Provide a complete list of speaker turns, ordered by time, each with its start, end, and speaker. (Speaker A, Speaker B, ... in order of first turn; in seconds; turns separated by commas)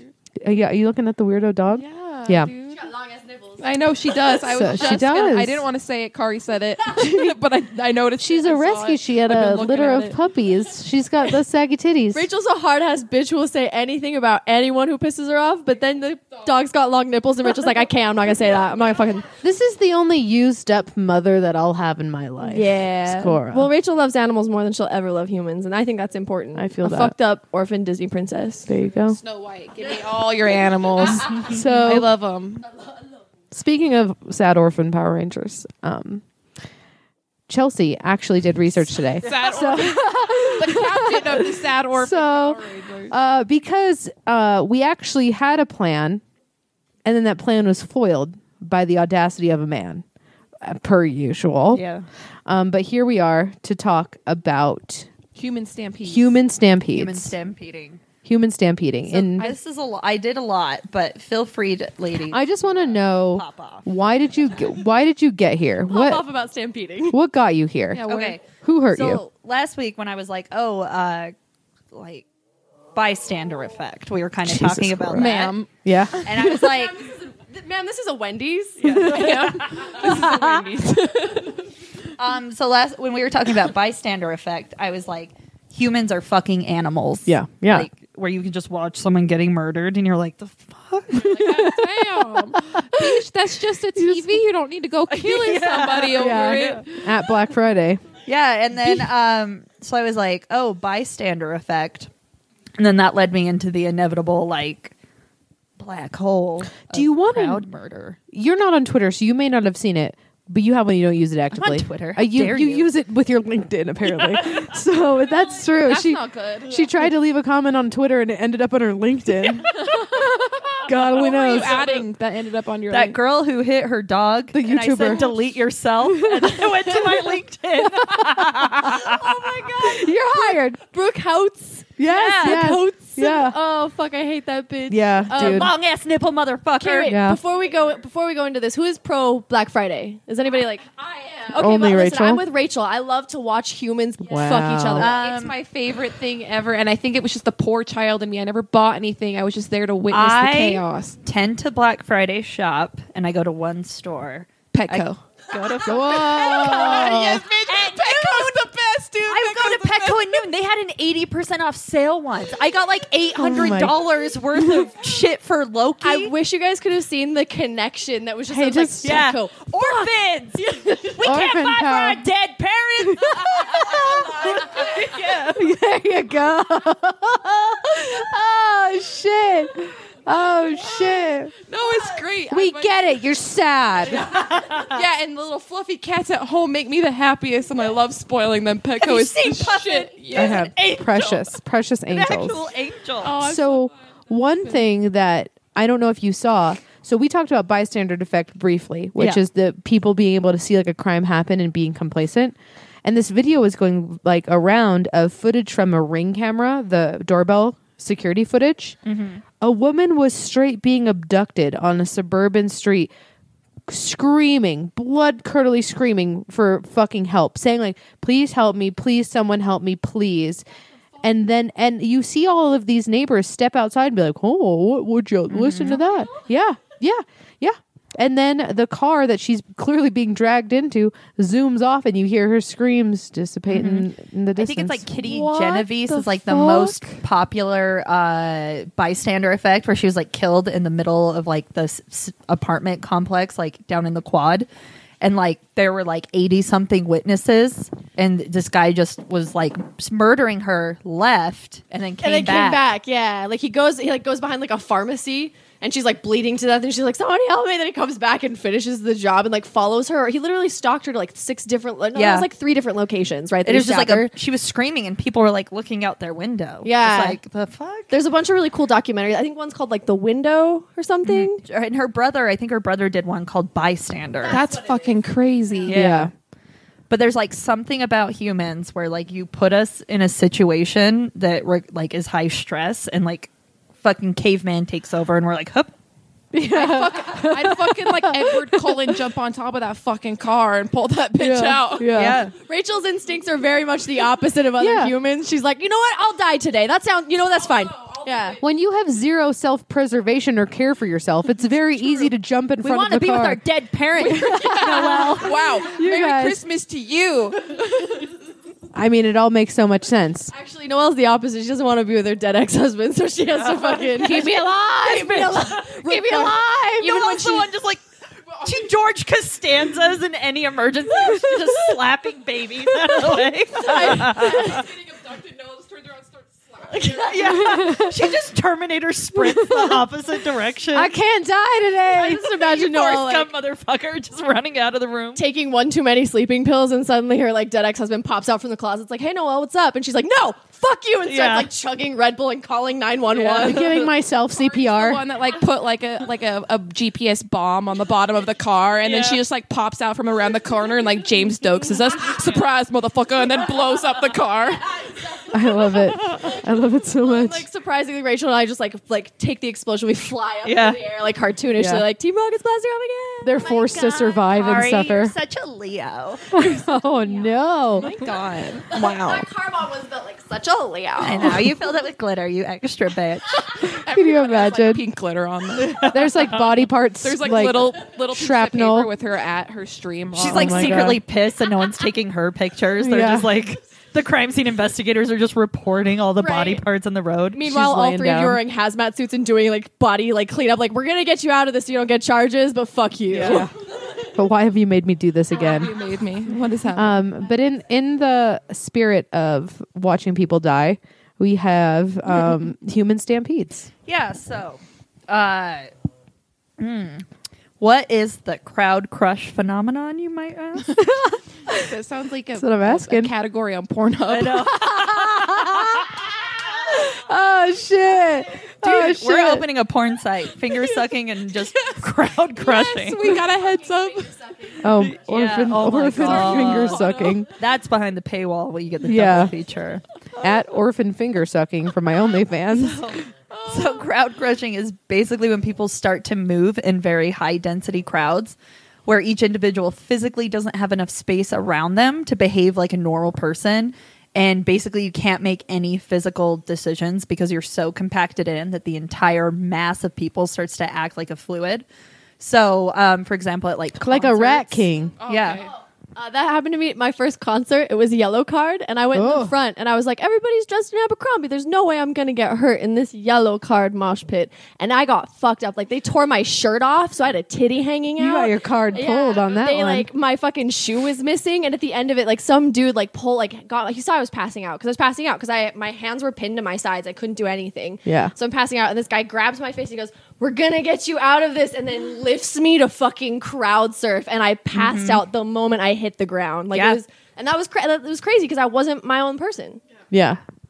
Speaker A: 0.4-2.5, Speaker B: 1.7-2.9, Speaker C: 2.8-3.7, Speaker B: 3.6-10.2, Speaker A: 4.4-5.6, Speaker A: 7.0-7.4, Speaker A: 8.2-12.3, Speaker C: 12.1-19.3, Speaker A: 19.3-23.7, Speaker C: 22.4-28.7, Speaker A: 26.5-27.1, Speaker A: 28.7-29.2, Speaker B: 29.1-32.7, Speaker A: 31.5-32.1, Speaker A: 33.5-36.2, Speaker A: 37.5-46.2, Speaker B: 39.2-43.1, Speaker A: 47.0-50.0, Speaker A: 50.6-51.8, Speaker D: 51.7-52.0, Speaker A: 52.5-55.1, Speaker B: 55.3-56.4, Speaker A: 56.0-57.3, Speaker D: 56.9-58.0, Speaker A: 58.2-59.5, Speaker D: 59.1-62.6, Speaker A: 62.3-66.2, Speaker D: 63.3-63.9, Speaker C: 65.9-67.2, Speaker A: 67.1-69.2, Speaker B: 67.9-68.4, Speaker D: 68.0-71.3, Speaker D: 71.9-72.2, Speaker D: 72.9-75.6, Speaker A: 74.4-75.3, Speaker B: 75.1-76.3, Speaker A: 75.8-76.7, Speaker D: 76.2-77.0, Speaker C: 76.5-79.1, Speaker D: 78.8-80.1, Speaker A: 78.9-79.2, Speaker B: 78.9-81.6, Speaker A: 80.1-80.6, Speaker D: 82.2-91.6, Speaker A: 87.2-87.9, Speaker A: 91.1-93.2, Speaker B: 91.1-97.2, Speaker A: 94.0-94.4, Speaker D: 95.1-96.8, Speaker A: 96.1-98.0, Speaker D: 98.2-102.1, Speaker A: 98.7-99.1, Speaker D: 102.8-104.9, Speaker D: 105.8-108.2, Speaker A: 106.9-107.6, Speaker A: 108.3-122.1, Speaker D: 111.5-112.9, Speaker B: 115.8-117.0, Speaker B: 119.9-120.1, Speaker B: 121.1-123.2, Speaker D: 122.9-129.6, Speaker A: 124.5-125.3, Speaker A: 126.1-127.1, Speaker A: 127.9-128.8, Speaker C: 128.8-135.7, Speaker A: 132.0-133.5, Speaker D: 132.1-132.7, Speaker A: 134.9-135.7, Speaker D: 135.3-137.2, Speaker C: 136.8-145.2, Speaker A: 137.1-137.4, Speaker A: 141.5-142.4, Speaker A: 144.2-145.1, Speaker D: 145.0-145.6, Speaker B: 145.0-151.2, Speaker D: 150.1-158.6, Speaker B: 154.7-155.2, Speaker B: 155.8-160.2, Speaker A: 155.8-157.4, Speaker D: 159.3-166.3, Speaker A: 163.3-163.9, Speaker A: 164.6-164.9, Speaker C: 166.0-170.1, Speaker A: 168.5-169.2, Speaker D: 169.0-175.7, Speaker C: 170.6-170.9, Speaker A: 171.2-172.2, Speaker A: 173.0-181.5, Speaker B: 181.7-183.1, Speaker A: 182.5-184.3, Speaker B: 184.1-190.7, Speaker D: 184.2-185.0, Speaker D: 189.0-191.5, Speaker A: 190.3-192.6, Speaker D: 192.1-193.4, Speaker B: 193.2-194.9, Speaker A: 193.4-209.0, Speaker D: 209.0-209.4, Speaker A: 209.6-213.1, Speaker A: 213.9-220.6, Speaker A: 221.2-235.1, Speaker D: 225.5-226.0, Speaker D: 233.7-244.7, Speaker B: 235.3-236.9, Speaker D: 245.2-252.9, Speaker C: 252.2-264.3, Speaker D: 262.1-262.5, Speaker D: 263.6-268.1, Speaker C: 266.8-267.4, Speaker C: 268.1-271.6, Speaker D: 271.2-274.6, Speaker B: 274.4-276.0, Speaker C: 274.5-274.9, Speaker D: 275.9-276.3, Speaker A: 275.9-276.3, Speaker D: 277.1-283.5, Speaker D: 284.0-285.9, Speaker A: 286.5-289.2, Speaker B: 286.7-292.2, Speaker A: 291.3-292.4, Speaker D: 292.1-292.5, Speaker C: 292.6-298.6, Speaker A: 294.8-295.1, Speaker A: 298.6-303.6, Speaker D: 302.8-305.8, Speaker B: 304.2-308.3, Speaker A: 304.4-306.6, Speaker A: 308.9-310.5, Speaker C: 310.5-317.7, Speaker D: 313.6-318.0, Speaker A: 314.3-314.6, Speaker D: 318.6-324.8, Speaker B: 323.8-327.3, Speaker C: 323.9-324.8, Speaker C: 326.9-327.4, Speaker D: 327.1-331.1, Speaker A: 327.5-328.2, Speaker A: 329.3-330.0, Speaker A: 330.9-332.4, Speaker C: 332.1-333.5, Speaker D: 332.5-335.4, Speaker C: 335.3-343.9, Speaker D: 341.2-341.7, Speaker D: 343.3-344.1, Speaker A: 343.6-345.2, Speaker B: 344.7-355.0, Speaker A: 355.5-357.6, Speaker C: 357.1-364.5, Speaker D: 360.6-361.0, Speaker A: 361.8-362.0, Speaker A: 363.4-365.3, Speaker D: 364.2-366.6, Speaker A: 366.5-368.1, Speaker C: 366.5-367.6, Speaker B: 368.0-369.5, Speaker C: 368.9-371.7, Speaker D: 371.2-373.7, Speaker B: 373.9-376.5, Speaker A: 373.9-375.0, Speaker D: 375.8-376.6, Speaker A: 375.9-379.1, Speaker B: 377.2-381.1, Speaker A: 380.3-381.2, Speaker D: 380.4-387.6, Speaker A: 383.0-383.5, Speaker C: 386.4-386.8, Speaker C: 387.5-393.7, Speaker A: 387.6-388.6, Speaker D: 393.3-393.7, Speaker A: 393.4-393.7, Speaker A: 394.3-395.9, Speaker B: 395.6-397.2, Speaker A: 396.9-403.9, Speaker D: 404.1-405.9, Speaker D: 406.8-407.2, Speaker D: 407.8-411.1, Speaker A: 411.0-411.8, Speaker B: 411.7-414.8, Speaker A: 412.6-413.3, Speaker D: 414.3-416.1, Speaker A: 414.9-416.1, Speaker A: 416.9-419.7, Speaker D: 418.8-423.4, Speaker B: 422.6-424.4, Speaker A: 424.8-427.5, Speaker D: 425.0-430.0, Speaker B: 426.1-427.4, Speaker A: 429.0-429.5, Speaker A: 430.4-433.1, Speaker D: 432.7-451.8, Speaker B: 433.5-434.1, Speaker D: 452.4-455.6, Speaker A: 454.0-455.1, Speaker B: 455.2-455.7, Speaker C: 456.1-489.8, Speaker A: 459.1-459.5, Speaker A: 468.2-470.1, Speaker A: 478.0-478.3, Speaker D: 484.7-485.2, Speaker D: 486.7-487.0, Speaker A: 490.1-490.4